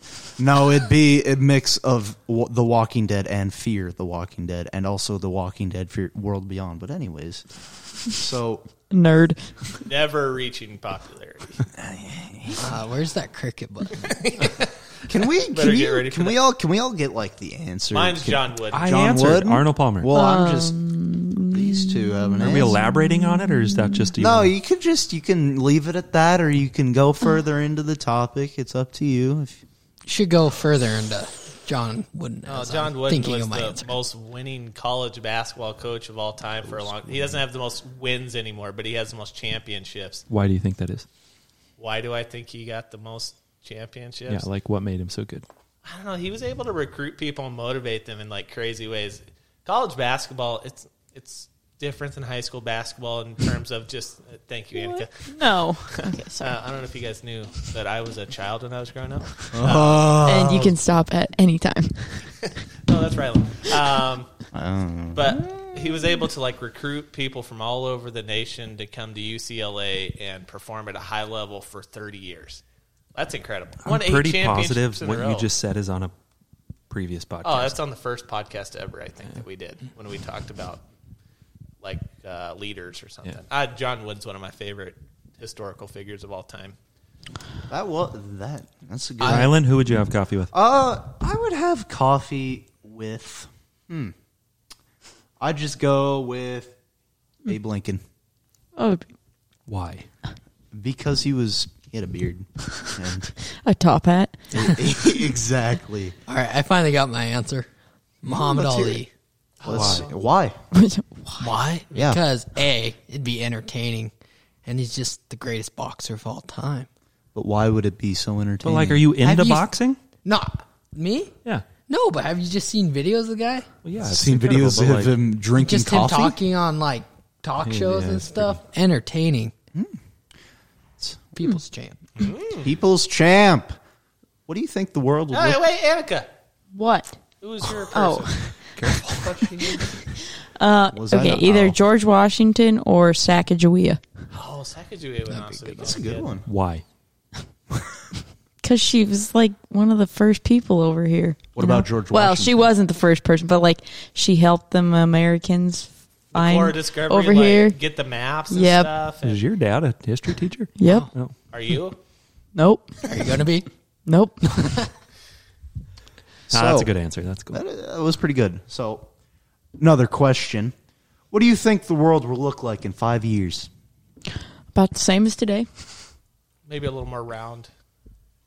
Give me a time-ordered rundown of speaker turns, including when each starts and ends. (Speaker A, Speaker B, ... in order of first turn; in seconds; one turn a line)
Speaker A: 0.4-7.4
Speaker A: 8.1-8.6
Speaker B: 8.9-9.4
Speaker C: 9.8-11.7
Speaker A: 11.7-12.6
Speaker D: 12.6-14.1
Speaker C: 14.0-14.7
Speaker A: 15.1-20.7
Speaker C: 15.4-16.4
Speaker C: 17.9-18.9
Speaker E: 18.7-20.2
Speaker B: 20.1-24.1
Speaker A: 21.5-22.8
Speaker E: 22.4-24.5
Speaker A: 24.2-29.6
Speaker D: 30.1-33.9
Speaker C: 32.5-40.2
Speaker A: 36.7-37.3
Speaker E: 40.3-41.0
Speaker C: 41.8-44.5
Speaker E: 44.3-45.5
Speaker C: 45.8-55.2
Speaker B: 54.8-56.5
Speaker C: 55.9-60.3
Speaker A: 59.5-60.8
Speaker B: 60.2-62.2
Speaker C: 62.9-64.3
Speaker A: 64.5-65.7
Speaker C: 65.1-72.6
Speaker C: 73.1-75.5
Speaker E: 73.8-76.1
Speaker E: 76.9-77.7
Speaker C: 77.4-80.8
Speaker C: 81.8-86.8
Speaker A: 87.7-89.5
Speaker D: 89.2-89.5
Speaker E: 89.3-90.5
Speaker A: 90.5-94.1
Speaker A: 95.4-96.7
Speaker A: 97.4-98.0
Speaker B: 98.8-99.0
Speaker E: 99.7-100.0
Speaker A: 100.7-103.3
Speaker B: 103.5-105.2
Speaker A: 104.5-106.2
Speaker D: 106.3-107.7
Speaker D: 108.2-109.1
Speaker A: 108.2-109.0
Speaker C: 109.6-110.1
Speaker A: 109.6-110.5
Speaker E: 109.7-110.1
Speaker B: 110.7-111.5
Speaker D: 111.4-114.1
Speaker A: 111.9-112.2
Speaker D: 114.6-116.9
Speaker A: 117.3-119.1
Speaker E: 118.6-120.0
Speaker D: 119.2-119.7
Speaker D: 120.2-121.3
Speaker D: 121.9-123.7
Speaker E: 123.8-125.2
Speaker A: 124.0-126.4
Speaker D: 125.6-129.5
Speaker E: 127.6-128.6
Speaker D: 131.3-132.0
Speaker C: 132.2-132.7
Speaker A: 132.6-133.7
Speaker A: 134.5-135.6
Speaker C: 135.3-136.3
Speaker B: 136.7-137.1
Speaker C: 137.4-138.5
Speaker B: 137.9-138.6
Speaker E: 138.8-139.4
Speaker C: 139.1-139.9
Speaker B: 140.6-144.0
Speaker A: 140.9-141.8
Speaker C: 144.3-146.3
Speaker D: 145.3-146.0
Speaker A: 145.8-146.4
Speaker E: 146.4-146.8
Speaker B: 148.6-157.8
Speaker A: 151.6-152.6
Speaker C: 156.3-159.4
Speaker B: 158.5-158.9
Speaker E: 159.2-161.3
Speaker B: 160.8-161.1
Speaker D: 160.8-161.1
Speaker C: 161.5-162.0
Speaker B: 162.5-163.0
Speaker D: 163.0-163.7
Speaker B: 164.1-164.8
Speaker A: 166.5-166.9
Speaker E: 166.5-167.6
Speaker A: 167.5-169.1
Speaker A: 169.8-170.7
Speaker A: 171.3-173.7
Speaker B: 174.7-175.7
Speaker C: 176.7-177.7